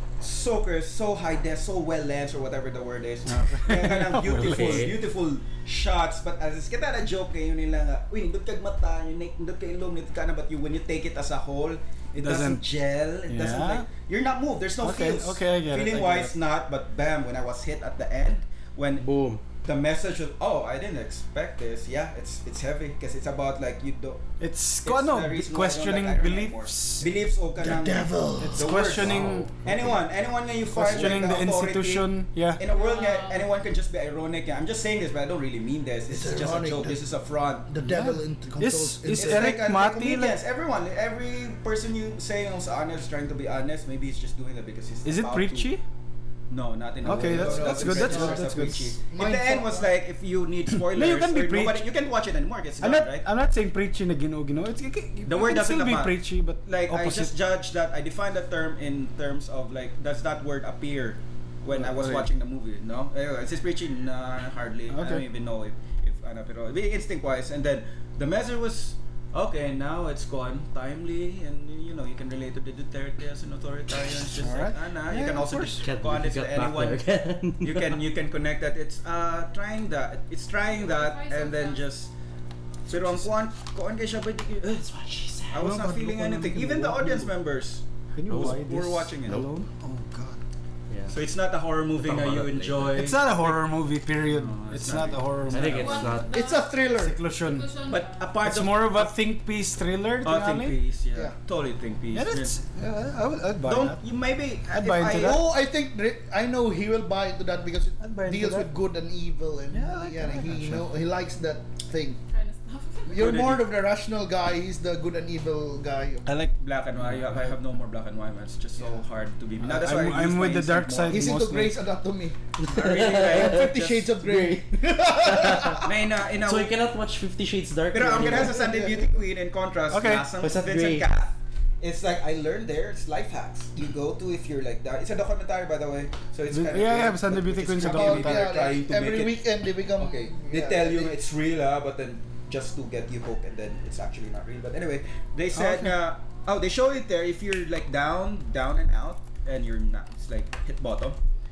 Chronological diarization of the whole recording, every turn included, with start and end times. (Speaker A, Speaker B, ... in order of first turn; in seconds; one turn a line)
Speaker A: 0.2-19.1
Speaker B: 3.3-4.9
Speaker C: 4.2-5.0
Speaker B: 12.2-12.6
Speaker B: 13.3-13.9
Speaker B: 14.8-16.4
Speaker C: 19.0-19.4
Speaker A: 19.6-24.2
Speaker B: 24.4-27.1
Speaker A: 24.8-37.7
Speaker D: 27.6-29.3
Speaker B: 28.4-30.0
Speaker B: 30.7-32.6
Speaker E: 32.7-33.5
Speaker D: 36.1-37.0
Speaker D: 37.7-39.5
Speaker B: 37.8-40.4
Speaker A: 39.1-45.7
Speaker B: 45.0-45.8
Speaker A: 46.5-53.3
Speaker B: 47.0-49.0
Speaker D: 47.1-49.9
Speaker B: 50.7-51.9
Speaker B: 52.8-57.4
Speaker A: 55.2-77.0
Speaker B: 61.7-62.3
Speaker B: 64.9-65.2
Speaker B: 74.3-75.8
Speaker C: 75.8-78.0
Speaker A: 77.6-82.1
Speaker E: 80.7-81.8
Speaker A: 82.9-89.5
Speaker B: 82.9-83.3
Speaker C: 84.8-85.5
Speaker B: 85.6-87.3
Speaker B: 88.2-90.4
Speaker C: 88.3-88.6
Speaker A: 91.1-93.7
Speaker C: 92.0-93.0
Speaker B: 92.9-96.2
Speaker A: 94.3-96.0
Speaker C: 95.5-96.3
Speaker E: 95.8-98.4
Speaker D: 96.2-97.2
Speaker B: 97.0-97.7
Speaker A: 97.9-99.2
Speaker B: 98.4-100.8
Speaker A: 100.2-102.6
Speaker B: 102.1-104.0
Speaker A: 103.7-105.4
Speaker B: 104.6-105.5
Speaker D: 105.0-112.2
Speaker B: 108.0-108.7
Speaker B: 109.7-110.9
Speaker E: 112.3-113.3
Speaker D: 113.1-116.3
Speaker A: 113.2-113.7
Speaker B: 116.3-116.5
Speaker A: 116.5-121.3
Speaker B: 119.6-121.8
Speaker D: 121.1-122.4
Speaker C: 122.6-125.8
Speaker A: 122.6-124.1
Speaker D: 122.9-125.9
Speaker A: 125.8-126.7
Speaker C: 126.4-128.6
Speaker A: 127.9-139.4
Speaker D: 128.2-129.2
Speaker B: 129.9-130.3
Speaker C: 130.4-131.1
Speaker B: 136.5-138.6
Speaker D: 137.8-141.1
Speaker A: 140.0-151.2
Speaker B: 145.5-146.0